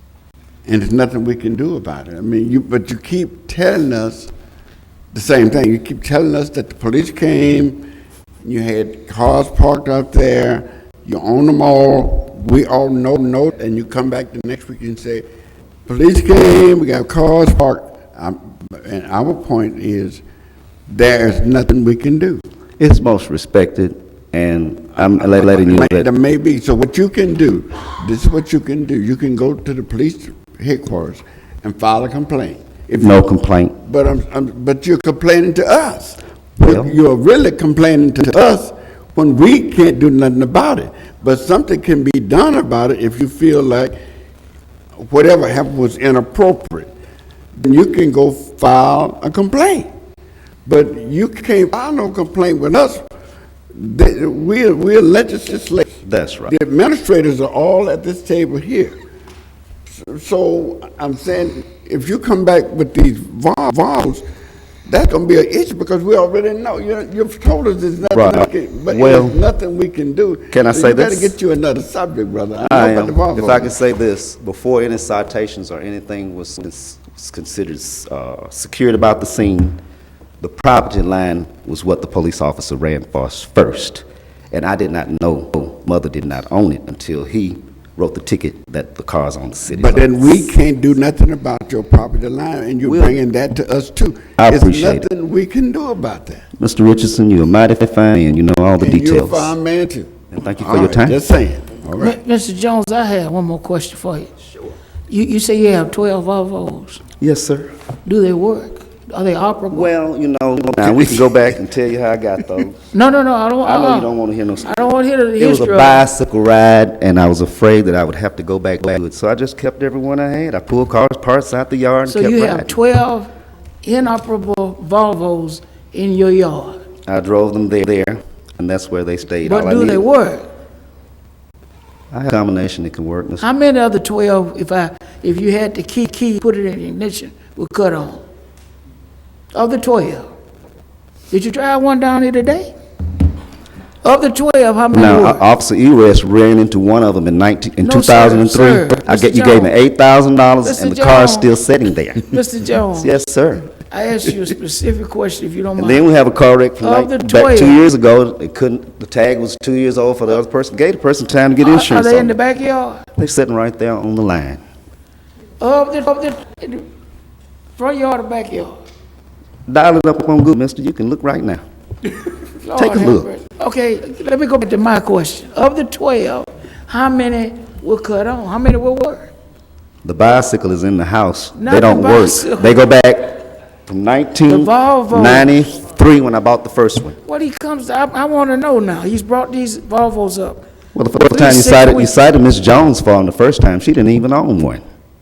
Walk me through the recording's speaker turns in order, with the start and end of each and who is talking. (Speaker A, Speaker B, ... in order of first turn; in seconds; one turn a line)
Speaker A: 0.7-4.3
Speaker A: 5.1-7.9
Speaker A: 8.4-15.2
Speaker A: 15.8-20.2
Speaker A: 20.9-22.4
Speaker B: 22.8-26.1
Speaker A: 25.0-33.2
Speaker B: 33.0-33.7
Speaker A: 33.8-43.9
Speaker B: 36.6-36.9
Speaker A: 45.0-46.9
Speaker A: 47.5-49.9
Speaker A: 50.6-53.1
Speaker A: 53.7-59.0
Speaker B: 56.0-56.5
Speaker A: 59.9-64.2
Speaker A: 64.8-73.7
Speaker B: 68.1-69.4
Speaker B: 70.5-71.4
Speaker B: 72.6-79.8
Speaker B: 80.4-90.5
Speaker A: 89.7-96.5
Speaker B: 92.8-93.2
Speaker B: 94.4-95.1
Speaker B: 96.6-99.5
Speaker A: 98.8-102.2
Speaker B: 100.3-101.2
Speaker C: 102.0-104.3
Speaker C: 105.1-107.0
Speaker B: 107.2-107.7
Speaker C: 108.0-109.9
Speaker B: 109.7-112.8
Speaker C: 112.9-116.1
Speaker B: 113.6-114.8
Speaker B: 115.4-122.8
Speaker C: 122.0-123.3
Speaker C: 123.8-126.8
Speaker B: 127.1-130.0
Speaker C: 129.4-130.5
Speaker B: 132.1-133.5
Speaker C: 133.4-138.2
Speaker C: 139.5-140.3
Speaker C: 141.3-142.7
Speaker C: 144.0-145.4
Speaker B: 144.9-152.3
Speaker C: 147.8-149.7
Speaker C: 150.6-151.5
Speaker C: 152.2-153.1
Speaker B: 153.0-153.7
Speaker C: 153.9-156.1
Speaker B: 155.8-162.4
Speaker C: 156.8-157.8
Speaker C: 161.6-163.0
Speaker B: 163.2-164.6
Speaker C: 165.6-166.9
Speaker C: 167.8-168.8
Speaker B: 169.7-171.6
Speaker C: 172.6-179.3
Speaker B: 172.7-173.3
Speaker B: 180.0-187.2
Speaker C: 181.5-182.8
Speaker C: 184.5-185.7
Speaker C: 187.2-190.6
Speaker B: 190.9-194.8
Speaker C: 191.2-192.1